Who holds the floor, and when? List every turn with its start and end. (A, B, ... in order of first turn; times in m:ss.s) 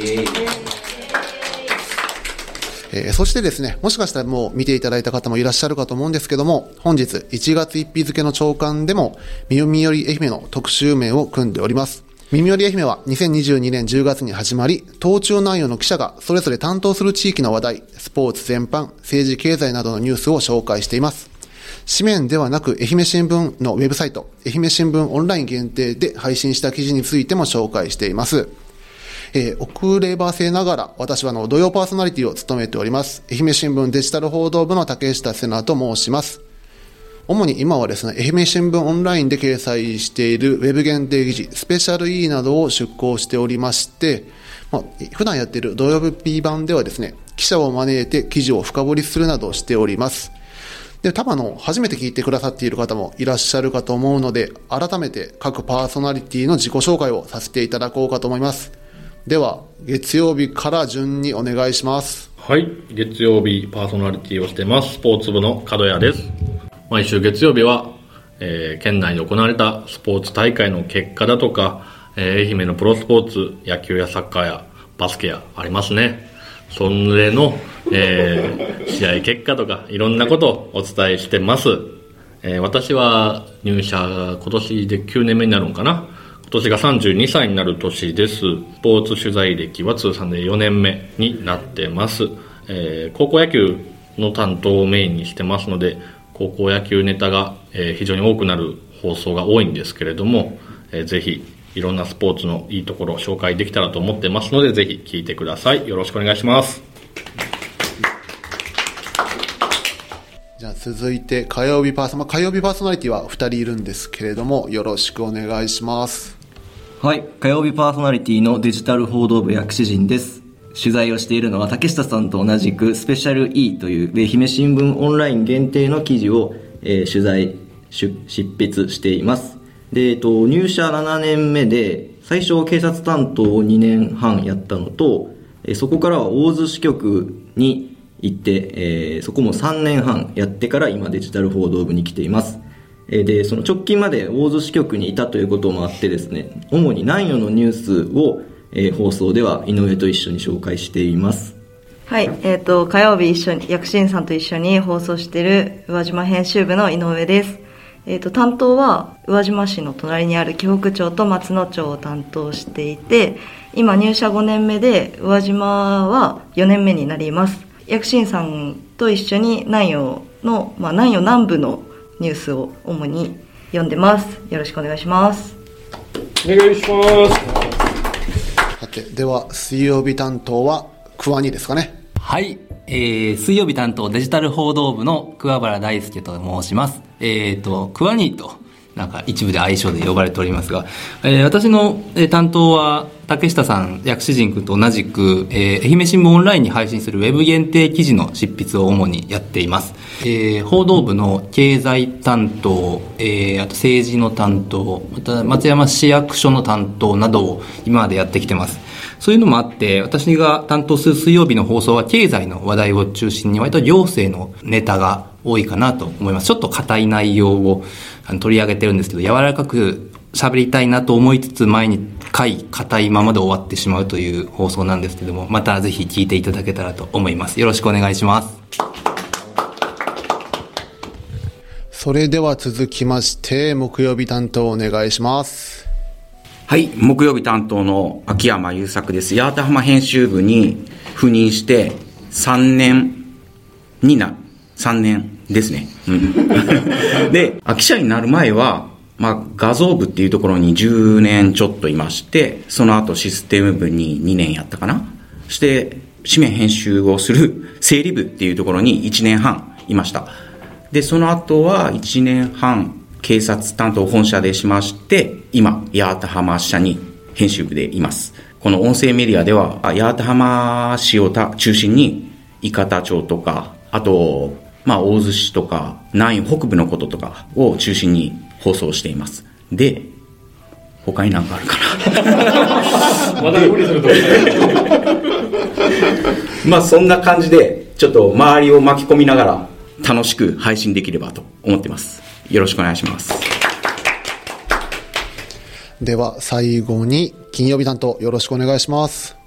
0:00.1-0:00.4 A
0:02.9-0:21.3 B
0:21.9-0:28.5 B
0:29.3-0:36.4 B
0:37.3-0:50.3 B
0:51.0-0:58.7 B
0:59.3-1:02.3 B
1:02.4-1:06.3 C
1:06.9-1:46.8 C
1:50.6-1:56.4 B
1:57.0-2:31.6 D
2:32.1-2:55.6 E
2:56.4-2:57.6 C
2:58.8-3:02.0 B
3:02.2-3:48.6 F
3:51.9-3:55.9 B
3:56.7-4:03.2 A
4:04.0-4:20.3 A
4:20.9-4:40.1 A
4:41.0-4:43.3 A
4:42.3-4:45.0 C
4:44.2-4:45.0 A
4:46.6-4:53.5 A
4:56.0-4:59.4 B